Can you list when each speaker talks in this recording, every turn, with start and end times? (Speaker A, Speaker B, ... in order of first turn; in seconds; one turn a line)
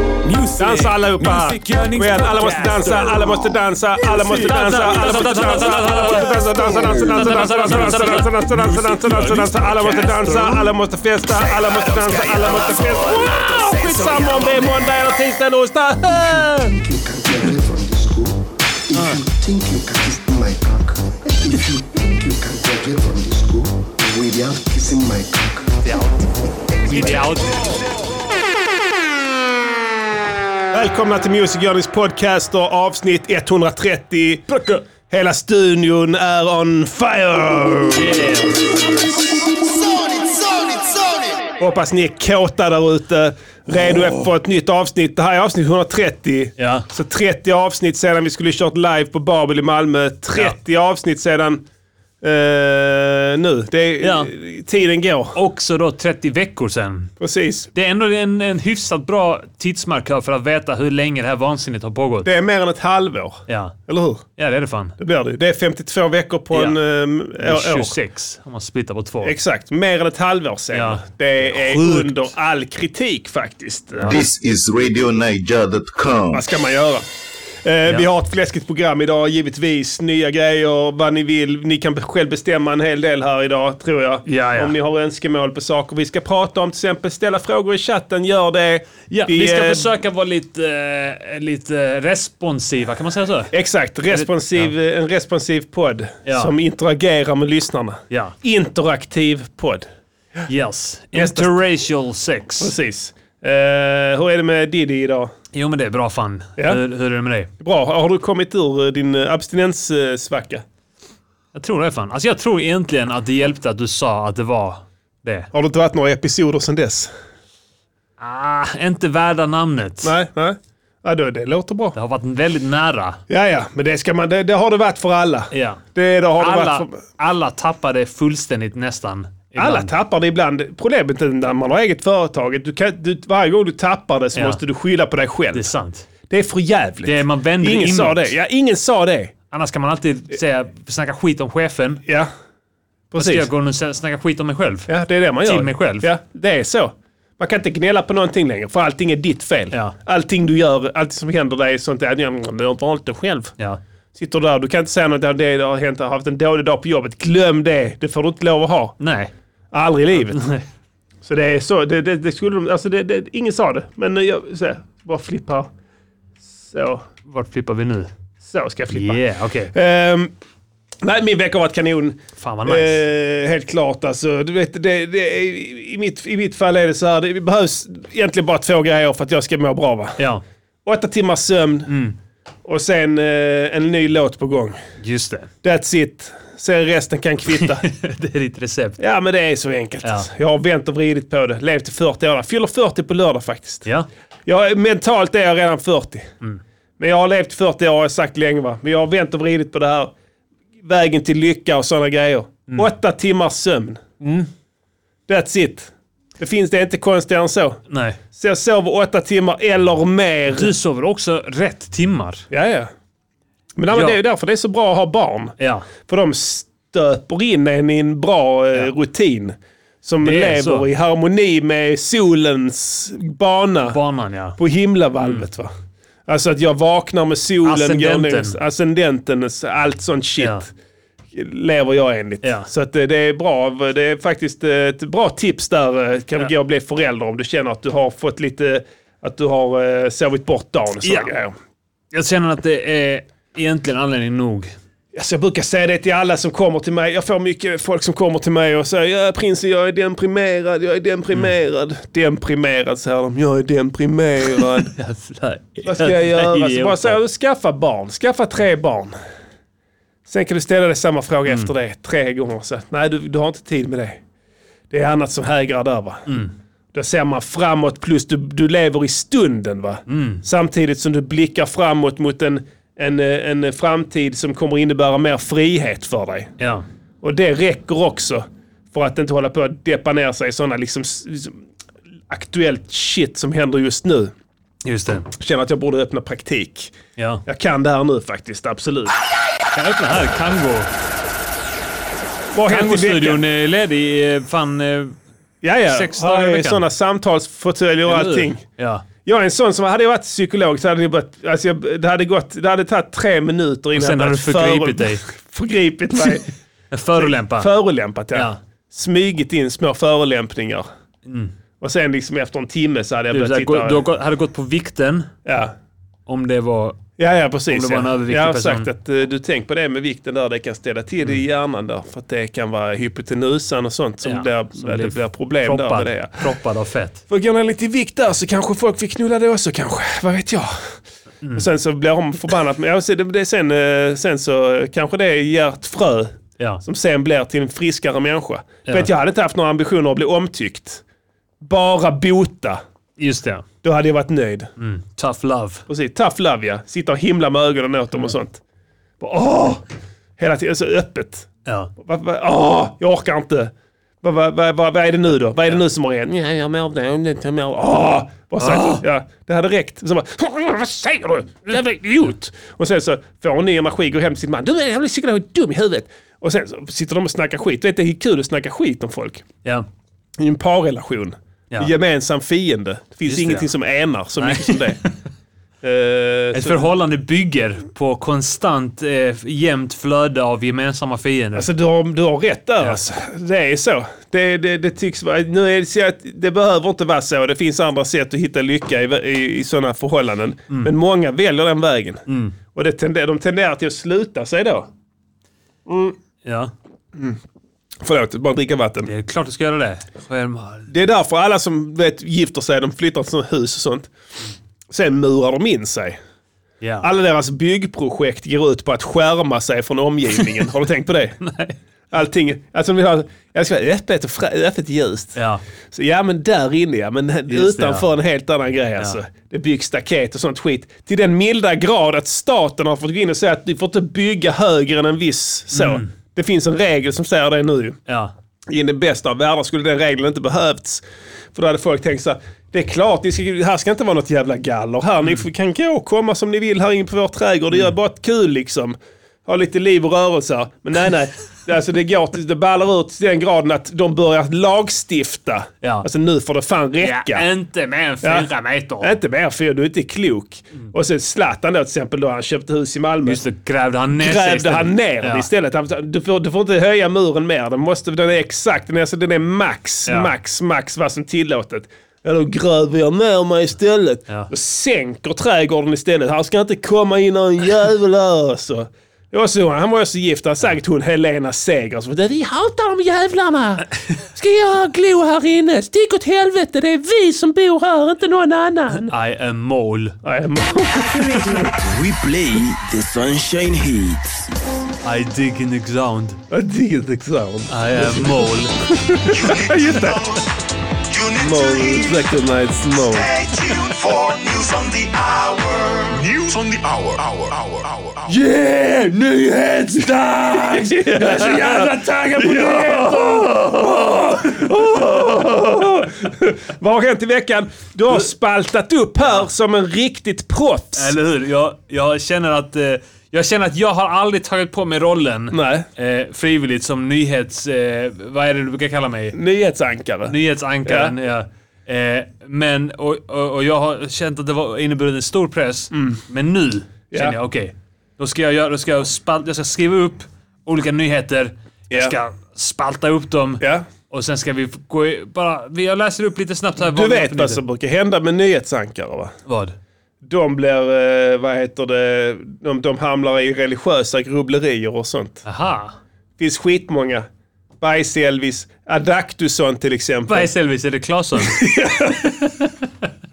Speaker A: 0.3-3.1
Speaker B: 0.5-16.7
Speaker A: 4.1-10.1
Speaker C: 11.9-14.8
Speaker C: 16.1-26.0
Speaker A: 18.9-19.2
Speaker A: 25.8-26.2
Speaker A: 26.8-27.8
Speaker C: 26.9-27.3
Speaker B: 30.7-38.2
Speaker A: 37.9-39.0
Speaker B: 41.6-51.6
Speaker A: 46.6-46.9
Speaker B: 52.2-55.4
Speaker A: 54.0-54.3
Speaker A: 55.3-57.1
Speaker B: 57.2-57.7
Speaker A: 57.7-62.3
Speaker B: 62.2-64.2
Speaker A: 63.5-63.8
Speaker A: 64.4-65.0
Speaker B: 65.0-68.0
Speaker A: 67.4-69.3
Speaker B: 69.2-74.2
Speaker A: 70.7-72.2
Speaker D: 74.0-76.4
Speaker B: 76.3-77.1
Speaker B: 77.6-89.9
Speaker A: 84.2-84.7
Speaker A: 89.1-93.5
Speaker B: 93.5-99.9
Speaker A: 94.1-94.7
Speaker A: 96.2-96.5
Speaker A: 100.5-102.7
Speaker B: 101.1-101.5
Speaker B: 102.6-105.3
Speaker A: 105.5-107.5
Speaker B: 107.6-110.6
Speaker A: 111.5-115.5
Speaker B: 115.5-117.1
Speaker A: 118.2-120.1
Speaker B: 120.0-122.0
Speaker A: 121.9-123.2
Speaker B: 123.3-127.0
Speaker A: 125.5-125.8
Speaker A: 126.4-129.9
Speaker B: 129.6-135.7
Speaker A: 134.3-134.6
Speaker A: 135.5-136.1
Speaker B: 136.3-139.3
Speaker A: 137.1-138.3
Speaker A: 139.5-142.0
Speaker B: 142.1-142.3
Speaker B: 143.1-143.5
Speaker A: 143.1-144.9
Speaker B: 144.9-153.5
Speaker A: 145.4-146.1
Speaker B: 154.1-158.9
Speaker A: 159.0-159.3
Speaker B: 159.7-160.4
Speaker A: 160.1-160.6
Speaker B: 161.2-165.7
Speaker B: 166.6-167.1
Speaker A: 167.3-168.1
Speaker B: 168.4-169.2
Speaker A: 168.9-169.7
Speaker B: 169.7-170.3
Speaker B: 171.0-180.2
Speaker A: 172.4-173.0
Speaker A: 180.2-180.4
Speaker B: 180.8-181.9
Speaker A: 181.9-182.2
Speaker B: 182.6-184.8
Speaker A: 185.0-185.5
Speaker B: 185.6-187.9
Speaker A: 187.8-189.0
Speaker B: 189.0-193.9
Speaker A: 190.0-190.3
Speaker B: 194.5-196.3
Speaker B: 197.0-200.1
Speaker B: 200.8-204.4
Speaker B: 205.3-207.8
Speaker A: 207.9-208.2
Speaker B: 208.3-210.7
Speaker A: 210.5-212.4
Speaker B: 212.5-212.9
Speaker B: 213.8-224.0
Speaker A: 213.9-214.2
Speaker A: 215.6-215.9
Speaker A: 220.2-220.9
Speaker A: 223.9-224.6
Speaker B: 224.6-225.7
Speaker A: 225.2-225.4
Speaker B: 226.3-230.7
Speaker A: 227.6-228.6
Speaker B: 231.3-241.5
Speaker A: 232.4-232.7
Speaker A: 241.0-241.3
Speaker A: 242.1-244.7
Speaker B: 245.1-254.9
Speaker A: 254.6-257.2
Speaker B: 255.8-259.1
Speaker B: 260.2-264.2
Speaker B: 264.9-266.4
Speaker B: 266.9-276.5
Speaker A: 270.1-270.4
Speaker A: 276.6-276.8
Speaker B: 277.2-281.6
Speaker B: 282.3-284.3
Speaker A: 284.8-285.3
Speaker B: 285.3-286.9
Speaker A: 287.2-287.4
Speaker B: 287.4-289.1
Speaker A: 289.7-290.9
Speaker B: 292.5-293.4
Speaker A: 292.7-295.1
Speaker B: 295.6-298.6
Speaker A: 295.9-296.8
Speaker A: 298.1-299.0
Speaker B: 299.2-306.5
Speaker A: 303.9-305.2
Speaker A: 306.9-307.7
Speaker B: 307.1-310.9
Speaker A: 311.2-311.5
Speaker B: 311.8-314.0
Speaker A: 313.3-315.3
Speaker B: 315.4-315.7
Speaker A: 316.3-317.0
Speaker B: 317.2-326.5
Speaker A: 317.7-318.9
Speaker A: 324.2-327.2
Speaker B: 327.3-331.0
Speaker B: 331.5-341.0
Speaker B: 341.6-342.8
Speaker A: 343.2-343.6
Speaker B: 343.8-344.7
Speaker A: 344.8-345.8
Speaker B: 345.9-348.6
Speaker B: 349.2-349.8
Speaker B: 350.4-351.5
Speaker A: 351.6-351.9
Speaker B: 352.0-369.4
Speaker A: 358.6-359.0
Speaker B: 370.4-375.0
Speaker A: 373.3-373.7
Speaker A: 374.4-375.1
Speaker B: 375.8-376.9
Speaker A: 376.5-381.7
Speaker B: 381.5-394.9
Speaker A: 392.3-392.5
Speaker B: 395.9-396.1
Speaker A: 396.4-396.7
Speaker B: 398.0-399.1
Speaker A: 399.1-400.9
Speaker B: 400.9-404.1
Speaker B: 404.9-406.2
Speaker A: 406.8-407.1
Speaker B: 407.0-411.4
Speaker A: 411.4-411.8
Speaker B: 412.1-415.4
Speaker A: 415.4-415.6
Speaker B: 415.9-428.0
Speaker A: 417.5-418.1
Speaker A: 425.7-426.1
Speaker A: 428.1-428.3
Speaker B: 428.7-431.0
Speaker B: 431.5-447.4
Speaker A: 447.0-449.1
Speaker B: 448.2-448.5
Speaker B: 449.0-453.4
Speaker A: 453.2-455.5
Speaker B: 454.1-479.1
Speaker A: 479.1-480.2
Speaker B: 480.2-481.8
Speaker E: 481.8-484.5
Speaker A: 485.0-486.4
Speaker B: 486.5-490.3
Speaker A: 487.7-488.7
Speaker F: 489.3-490.5
Speaker F: 491.1-492.4
Speaker B: 491.4-493.3
Speaker F: 492.9-498.4
Speaker B: 498.3-511.1
Speaker A: 500.8-503.3
Speaker A: 510.9-519.4
Speaker B: 515.5-515.9
Speaker B: 519.3-521.1
Speaker A: 520.3-537.6
Speaker B: 525.9-526.2
Speaker B: 527.1-527.4
Speaker B: 531.9-532.1
Speaker B: 533.6-533.9
Speaker B: 536.8-539.4
Speaker A: 539.5-539.7
Speaker B: 540.2-545.4
Speaker A: 545.5-546.0
Speaker B: 546.4-547.3
Speaker B: 547.8-550.5
Speaker A: 550.3-552.9
Speaker B: 551.4-552.4